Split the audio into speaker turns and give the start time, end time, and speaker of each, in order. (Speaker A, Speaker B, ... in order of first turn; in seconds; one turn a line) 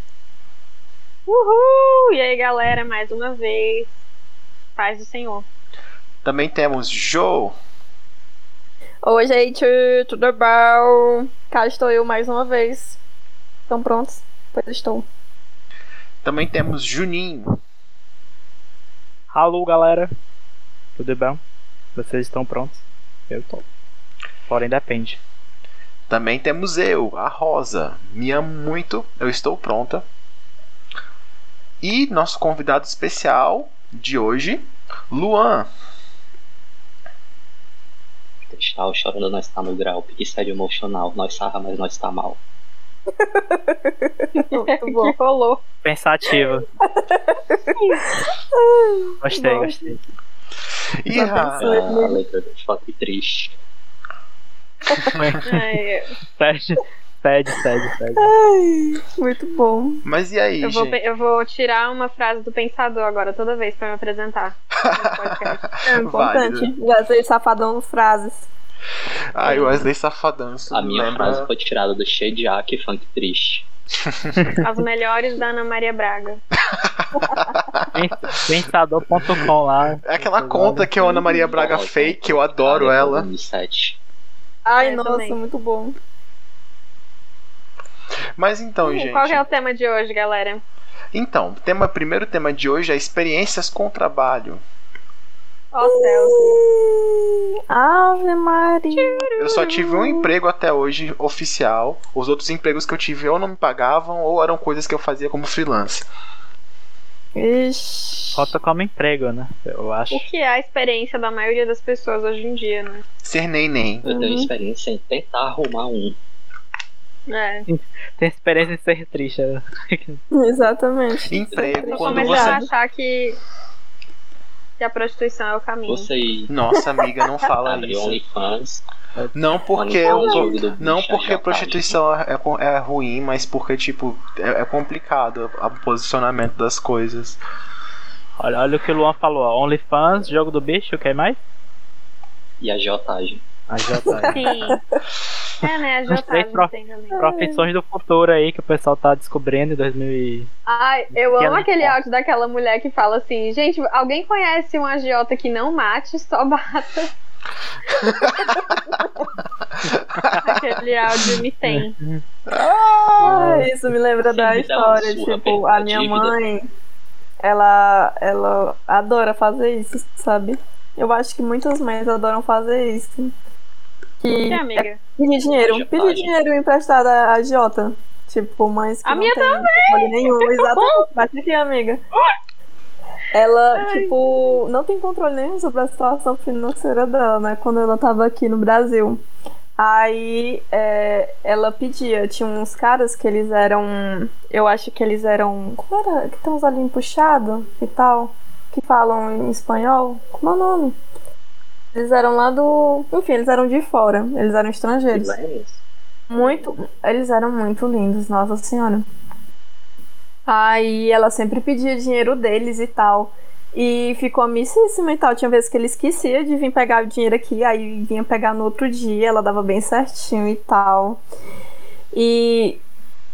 Speaker A: 1.3-4.0
Speaker A: 4.8-5.5
Speaker B: 6.2-7.6
Speaker C: 9.0-13.0
Speaker C: 13.7-15.1
Speaker B: 16.2-17.6
Speaker D: 19.3-20.1
Speaker D: 21.0-21.4
Speaker D: 21.9-23.6
Speaker D: 24.5-25.2
Speaker B: 26.1-30.1
Speaker B: 31.8-35.7
Speaker E: 38.5-42.4
Speaker C: 43.2-45.1
Speaker A: 44.5-45.6
Speaker D: 45.8-46.7
Speaker C: 46.8-47.6
Speaker A: 47.8-48.1
Speaker C: 48.4-49.9
Speaker D: 49.2-50.0
Speaker B: 51.0-51.7
Speaker C: 51.1-52.2
Speaker E: 51.6-53.5
Speaker D: 55.1-55.7
Speaker A: 55.5-56.1
Speaker D: 56.3-58.3
Speaker C: 58.2-60.0
Speaker B: 60.0-61.0
Speaker A: 60.6-65.7
Speaker B: 64.8-66.7
Speaker C: 65.8-68.5
Speaker B: 69.3-71.5
Speaker E: 69.5-69.9
Speaker E: 70.7-73.7
Speaker B: 74.1-74.4
Speaker A: 74.6-76.4
Speaker B: 76.7-77.9
Speaker D: 77.9-80.9
Speaker B: 80.0-83.3
Speaker E: 81.4-84.0
Speaker C: 84.7-86.0
Speaker A: 84.8-85.4
Speaker B: 88.4-89.4
Speaker A: 88.8-90.6
Speaker B: 91.1-94.6
Speaker A: 95.7-96.6
Speaker C: 95.8-100.2
Speaker A: 98.9-99.6
Speaker B: 99.4-106.1
Speaker C: 107.3-108.5
Speaker D: 108.3-110.3
Speaker A: 110.1-113.0
Speaker B: 113.2-114.0
Speaker E: 114.0-116.2
Speaker C: 114.0-114.5
Speaker A: 117.3-117.7
Speaker D: 117.7-120.2
Speaker C: 120.3-122.7
Speaker B: 121.3-122.7
Speaker E: 121.3-122.5
Speaker A: 121.8-123.4
Speaker A: 124.8-126.1
Speaker E: 125.9-126.5
Speaker B: 126.5-128.2
Speaker E: 127.6-128.8
Speaker B: 129.3-137.4
Speaker E: 129.7-132.0
Speaker C: 130.1-130.6
Speaker D: 138.4-141.4
Speaker E: 142.6-143.4
Speaker D: 143.7-144.5
Speaker C: 144.1-144.8
Speaker A: 144.3-144.8
Speaker A: 145.6-147.3
Speaker D: 146.1-150.5
Speaker C: 147.2-147.7
Speaker A: 150.7-157.1
Speaker D: 151.1-152.0
Speaker B: 158.0-158.6
Speaker A: 158.0-158.7
Speaker D: 160.2-160.5
Speaker A: 160.3-161.9
Speaker D: 161.7-162.2
Speaker B: 162.5-163.5
Speaker C: 163.2-166.7
Speaker D: 163.3-163.7
Speaker E: 164.2-166.4
Speaker C: 167.4-173.3
Speaker C: 174.2-182.0
Speaker A: 174.3-175.0
Speaker E: 175.5-176.3
Speaker A: 179.0-181.1
Speaker C: 183.3-189.2
Speaker A: 183.7-184.2
Speaker C: 189.8-200.9
Speaker C: 201.9-205.4
Speaker E: 205.1-205.8
Speaker C: 206.3-209.1
Speaker C: 210.5-221.2
Speaker C: 222.1-222.8